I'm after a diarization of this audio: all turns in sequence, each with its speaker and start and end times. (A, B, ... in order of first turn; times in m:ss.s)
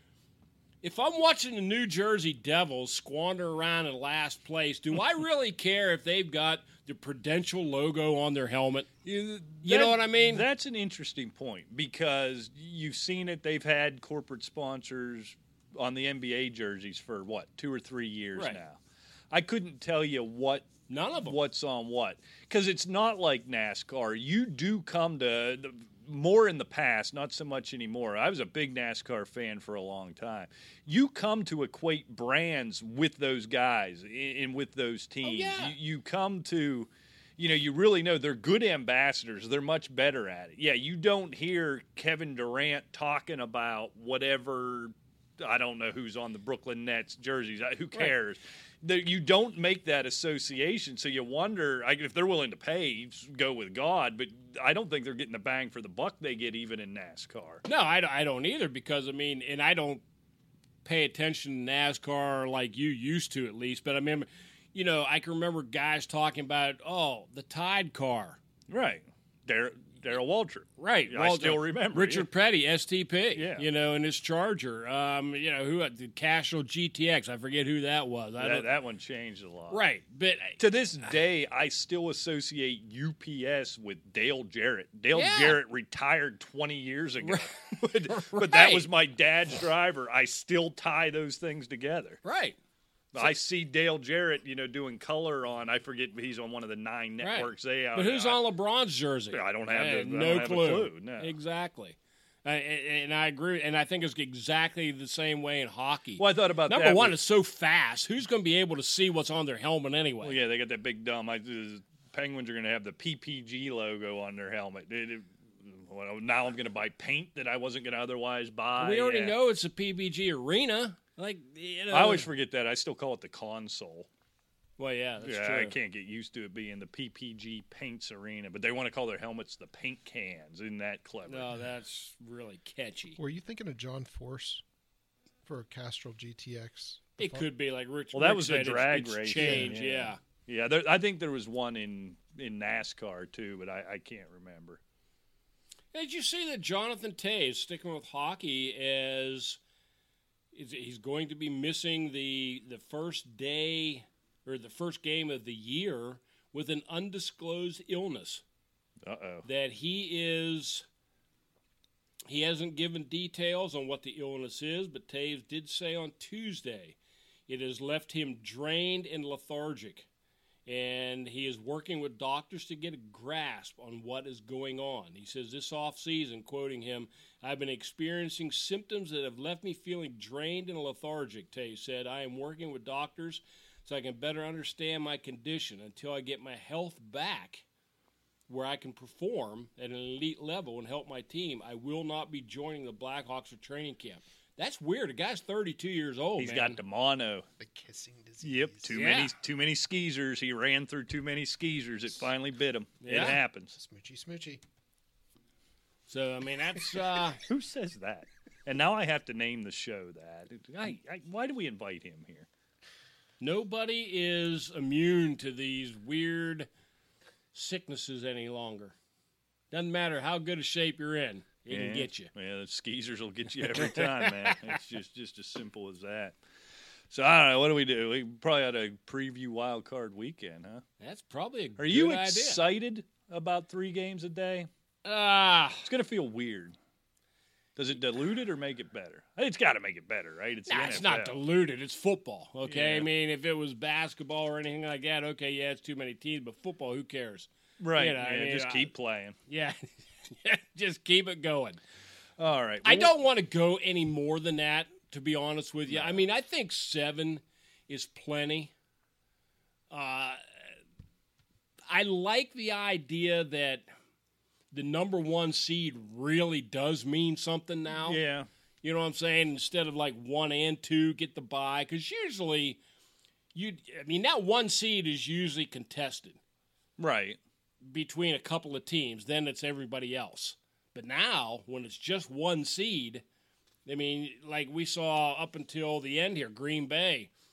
0:00.8-0:10.5 A
0:09.1-0:18.8 B
0:19.3-0:20.7 B
0:20.9-0:21.4 A
0:21.2-0:57.6 B
0:35.2-0:35.8 A
0:57.7-1:00.0 A
1:00.8-1:08.4 A
1:08.7-1:12.3 B
1:10.8-1:18.7 A
1:13.4-1:13.7 B
1:18.4-1:19.8 B
1:19.7-1:20.6 A
1:20.6-1:32.2 B
1:25.1-1:25.6 A
1:27.2-1:28.9 A
1:32.2-1:32.6 A
1:33.1-1:38.4 B
1:37.2-1:50.4 A
1:39.3-1:41.3 B
1:46.2-1:47.2 B
1:50.2-1:59.4 B
1:58.8-2:02.3 A
2:01.9-2:04.1 B
2:04.8-2:05.7 A
2:05.2-2:11.5 B
2:11.3-2:13.2 A
2:13.2-2:14.6 C
2:15.4-2:17.5 C
2:17.2-2:20.2 A
2:18.1-2:24.8 B
2:19.4-2:19.7 C
2:25.9-2:29.6 A
2:30.5-2:38.4 A
2:39.0-2:39.4 B
2:39.4-2:40.9 A
2:42.3-2:47.0 A
2:47.5-2:50.1 A
2:50.7-3:07.6 A
3:08.5-3:16.8 A
3:16.4-3:17.5 B
3:17.6-3:19.2 C
3:18.4-3:23.7 B
3:18.9-3:19.3 A
3:23.0-3:23.4 A
3:23.7-3:24.6 C
3:26.1-3:27.4 A
3:27.5-3:32.5 B
3:33.4-3:36.7 A
3:37.5-3:39.0 A
3:39.7-3:42.3 A
3:41.7-3:46.4 B
3:43.8-3:44.6 A
3:47.1-3:50.8 B
3:51.0-3:52.6 A
3:51.8-3:54.7 B
3:55.0-3:55.9 A
3:55.8-3:56.8 B
3:57.8-4:01.4 B
4:00.7-4:08.9 A
4:02.6-4:03.1 B
4:07.8-4:09.4 B
4:09.5-4:11.8 A
4:12.4-4:13.1 B
4:12.8-4:18.7 A
4:15.9-4:16.2 B
4:19.9-4:20.4 A
4:21.9-4:23.9 A
4:24.7-4:28.2 A
4:28.0-4:28.5 B
4:28.8-4:32.8 A
4:33.5-4:36.4 A
4:37.0-4:37.4 B
4:37.8-4:43.2 A
4:43.8-4:47.3 A